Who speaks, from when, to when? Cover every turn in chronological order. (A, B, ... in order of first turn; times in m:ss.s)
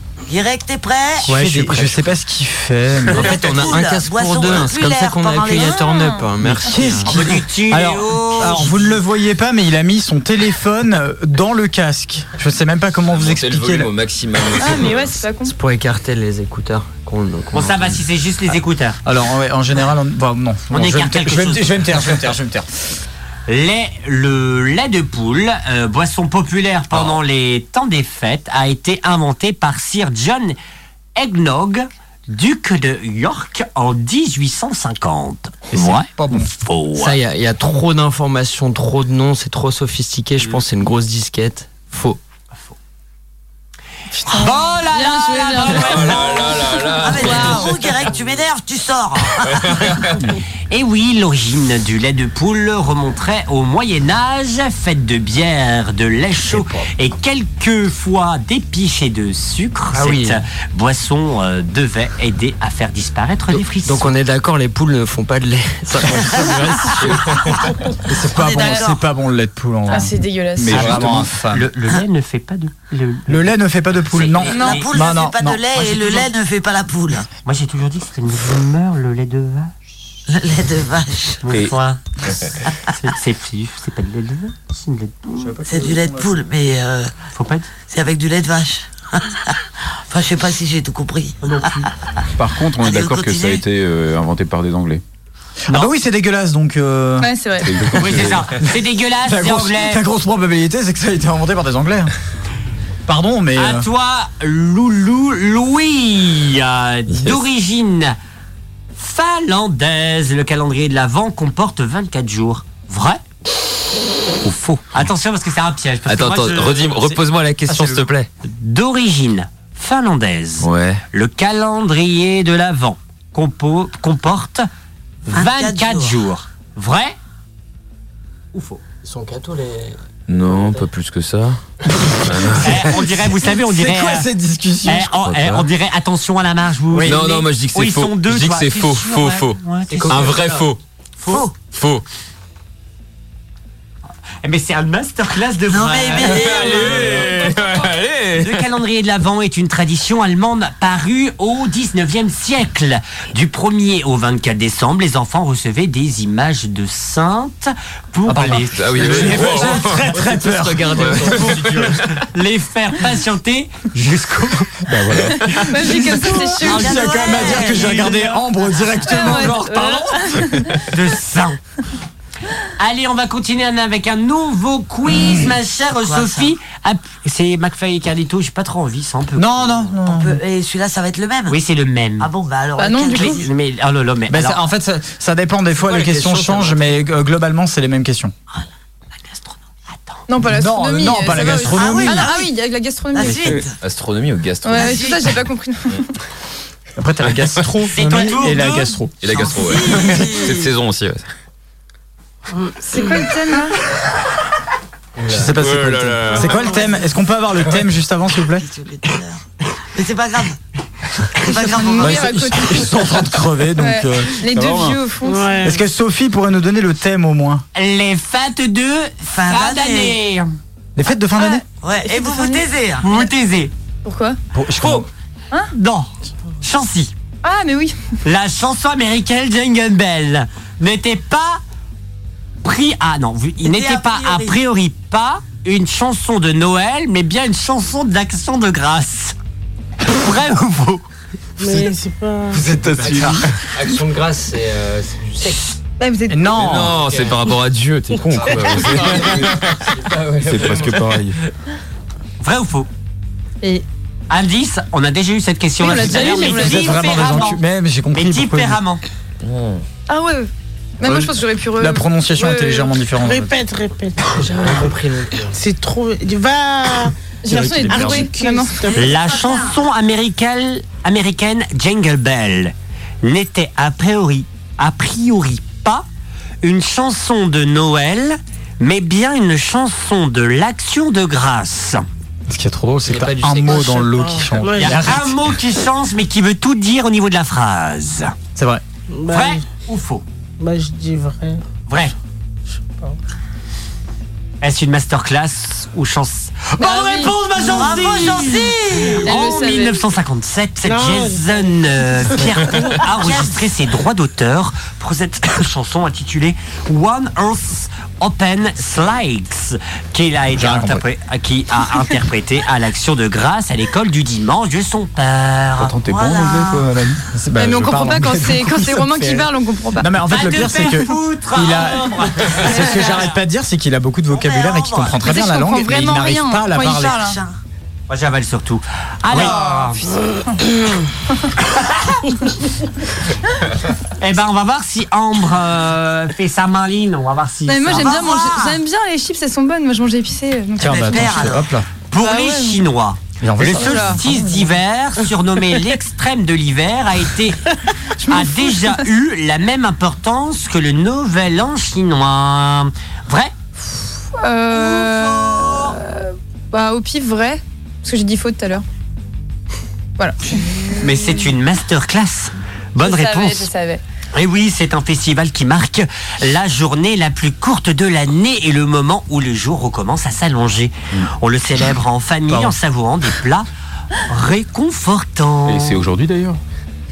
0:00.3-0:01.4 A
0:01.3-0:03.4 B
0:01.3-0:02.1 C
0:03.1-0:05.9 A
0:03.1-0:07.1 C
0:05.5-0:06.8 D
0:06.4-0:13.9 B
0:07.0-0:09.0 E
0:13.1-0:15.0 F
0:14.6-0:15.5 D
0:15.5-0:18.0 C
0:17.5-0:19.0 E
0:19.0-0:22.7 B
0:20.7-0:22.3 E
0:23.5-0:30.6 E
0:31.2-0:37.2 E
0:35.7-0:36.5 B
0:37.0-0:42.2 C
0:44.2-0:47.7 D
0:44.3-0:46.5 E
0:45.8-0:47.6 F
0:47.0-0:50.1 A
0:47.2-0:47.6 E
0:49.6-0:50.0 F
0:50.7-1:04.1 E
0:59.9-1:00.4 C
1:03.8-1:07.6 C
1:07.0-1:07.6 F
1:08.0-1:11.7 B
1:08.2-1:09.0 A
1:09.9-1:11.0 D
1:10.6-1:11.3 G
1:10.7-1:13.5 E
1:13.3-1:15.6 B
1:14.1-1:15.1 E
1:14.4-1:17.3 A
1:14.5-1:14.8 D
1:15.7-1:16.3 E
1:17.4-1:19.7 E
1:20.3-1:21.4 A
1:21.4-1:22.0 E
1:22.9-1:25.6 E
1:25.4-1:26.3 B
1:25.7-1:27.1 A
1:27.3-1:27.7 E
1:27.9-1:29.6 A
1:30.1-1:31.9 A
1:32.4-1:35.0 G
1:32.8-1:33.6 A
1:35.7-1:37.3 B
1:37.2-1:37.7 D
1:37.6-1:38.5 G
1:38.0-1:40.0 E
1:39.2-1:42.1 B
1:43.1-1:43.9 B
1:43.6-1:48.2 E
1:49.0-1:53.2 E
1:54.4-1:54.8 F
1:54.9-1:57.0 E
1:56.1-1:58.3 F
1:57.0-1:58.0 B
1:58.4-2:04.7 E
2:00.6-2:01.0 F
2:05.3-2:07.2 E
2:05.3-2:06.2 A
2:08.5-2:08.8 E
2:09.0-2:10.8 C
2:10.3-2:11.6 F
2:12.2-2:13.0 F
2:12.6-2:14.3 E
2:13.6-2:15.1 B
2:14.8-2:20.7 E
2:15.2-2:15.7 F
2:16.9-2:17.3 B
2:17.0-2:20.8 F
2:19.9-2:20.7 C
2:21.2-2:21.6 A
2:21.6-2:22.0 F
2:24.4-2:27.6 E
2:25.7-2:27.2 A
2:26.2-2:28.6 F
2:28.3-2:39.7 E
2:38.3-2:41.6 B
2:38.7-2:40.0 F
2:39.0-2:42.0 C
2:41.0-2:41.8 F
2:41.2-2:44.7 E
2:44.8-2:50.7 B
2:44.9-2:45.6 G
2:45.5-2:47.5 D
2:46.6-2:48.4 A
2:46.7-2:48.4 E
2:49.0-2:50.7 D
2:50.9-2:51.6 E
2:52.8-2:59.9 E
2:55.2-2:56.5 A
2:59.4-3:00.4 B
3:00.1-3:01.6 A
3:01.5-3:02.3 E
3:02.2-3:03.5 A
3:02.8-3:03.5 D
3:03.2-3:04.6 E
3:04.3-3:08.3 B
3:05.8-3:07.0 C
3:10.3-3:13.5 D
3:10.4-3:12.3 B
3:11.4-3:12.5 A
3:13.1-3:13.8 A
3:13.8-3:15.0 F
3:14.6-3:16.1 D
3:14.8-3:15.4 A
3:17.0-3:19.2 B
3:17.2-3:17.6 F
3:17.9-3:19.0 E
3:19.2-3:21.3 F
3:19.2-3:20.7 A
3:22.6-3:23.2 H
3:22.9-3:23.8 D
3:25.3-3:26.7 F
3:25.3-3:28.6 B
3:28.5-3:29.4 A
3:29.9-3:30.6 A
3:31.3-3:32.6 A
3:31.4-3:34.4 B
3:31.7-3:33.2 D
3:33.8-3:35.7 D
3:34.5-3:35.0 G
3:35.2-3:35.8 H
3:35.6-3:37.6 B
3:37.8-3:40.5 E
3:39.3-3:40.2 A
3:41.0-3:41.6 B
3:41.4-3:42.7 D
3:41.8-3:43.1 A
3:43.0-3:43.7 E
3:44.0-3:44.4 D
3:44.5-3:45.1 B
3:44.8-3:45.1 E
3:45.7-3:46.1 E
3:46.6-3:47.1 E
3:47.4-3:48.0 D
3:48.2-3:51.6 E
3:52.6-3:59.4 E
3:53.6-3:54.6 A
4:00.1-4:01.0 E
4:01.6-4:02.6 H
4:02.5-4:03.4 G
4:02.9-4:05.7 C
4:03.0-4:03.3 B
4:06.0-4:06.7 D
4:06.3-4:07.0 B
4:06.6-4:09.7 F
4:06.7-4:07.5 C
4:08.1-4:11.3 C
4:08.8-4:09.2 G
4:10.4-4:11.4 G
4:12.4-4:12.9 E
4:14.3-4:17.6 E
4:15.8-4:17.4 D
4:16.1-4:18.8 B
4:18.1-4:19.0 E
4:19.4-4:19.8 F
4:20.1-4:20.5 D
4:21.0-4:23.0 D
4:21.0-4:23.6 B
4:23.2-4:24.2 H
4:24.3-4:25.6 C
4:25.5-4:29.1 H
4:27.4-4:28.8 D
4:27.7-4:28.1 B
4:28.8-4:29.8 A
4:28.9-4:36.1 E
4:36.6-4:42.0 E
4:42.5-4:45.5 B
4:43.0-4:44.3 C
4:44.4-4:45.0 H
4:44.7-4:48.3 E
4:48.6-4:48.8 B
4:49.1-4:49.6 H
4:49.3-4:50.2 E
4:50.6-4:51.6 H
4:51.9-4:52.2 E
4:54.6-5:15.9 E
4:56.8-4:57.7 D
4:57.6-4:59.2 A
4:59.2-5:00.1 D
5:00.8-5:03.0 H
5:03.1-5:03.6 A
5:10.6-5:11.0 B
5:15.8-5:17.2 G
5:16.0-5:17.0 A
5:17.3-5:27.3 B
5:17.6-5:20.1 D
5:20.3-5:23.4 E
5:22.7-5:23.2 D
5:24.3-5:25.3 A
5:25.2-5:27.4 D
5:26.8-5:27.6 A
5:28.1-5:30.0 E
5:29.3-5:29.6 B
5:31.7-5:32.2 E
5:34.2-5:38.3 E
5:37.7-5:41.6 D
5:37.9-5:38.8 A
5:40.8-5:41.9 B
5:41.1-5:41.7 A
5:42.1-5:47.7 E
5:42.2-5:42.8 D
5:43.4-5:44.7 B
5:43.8-5:44.2 D
5:48.2-5:53.5 E
5:48.3-5:49.0 D
5:54.4-5:58.8 D
5:54.7-5:56.0 E
6:00.2-6:00.9 D
6:01.0-6:03.7 E
6:03.0-6:04.0 D
6:04.3-6:13.7 E
6:12.5-6:12.8 B
6:14.3-6:16.0 E
6:15.7-6:16.6 G